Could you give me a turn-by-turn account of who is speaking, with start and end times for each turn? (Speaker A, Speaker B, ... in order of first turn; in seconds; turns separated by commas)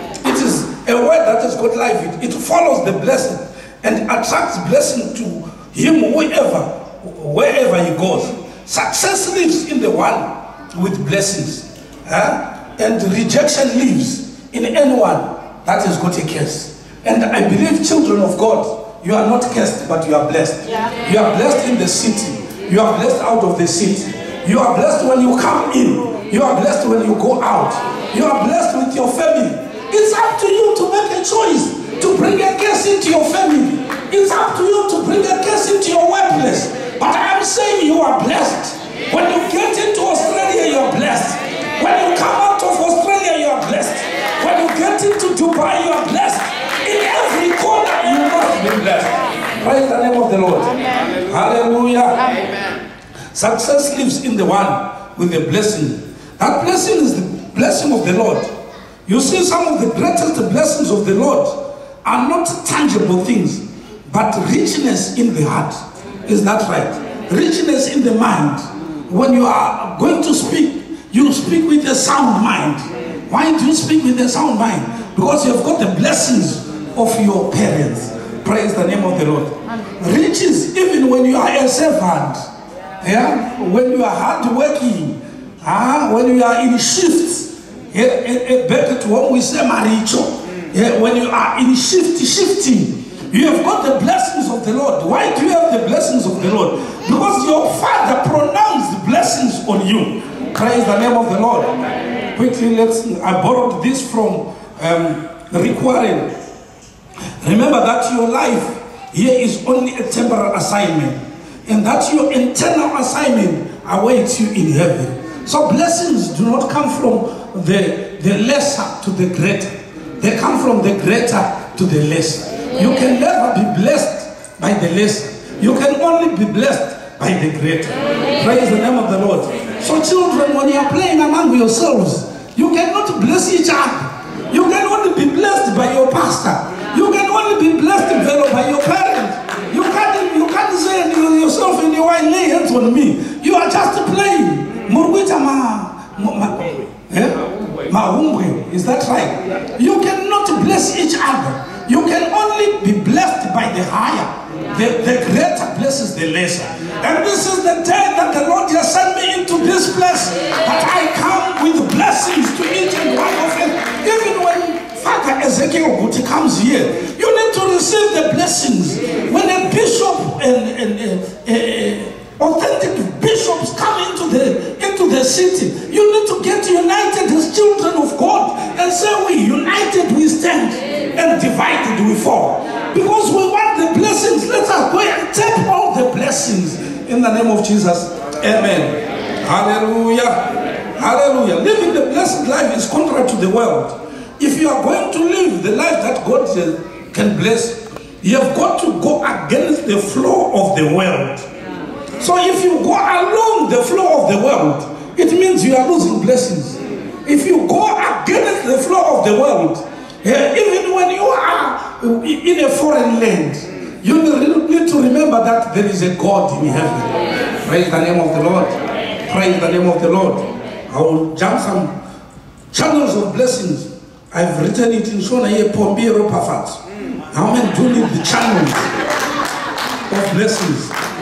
Speaker A: 0.2-52.2, Speaker A: 53.3-58.5, Speaker A: 59.0-82.5, Speaker A: 83.0-101.8, Speaker A: 102.3-106.3, Speaker A: 107.4-201.5, Speaker A: 202.2-221.9, Speaker A: 222.7-226.8, Speaker A: 227.3-228.9, Speaker A: 230.1-230.9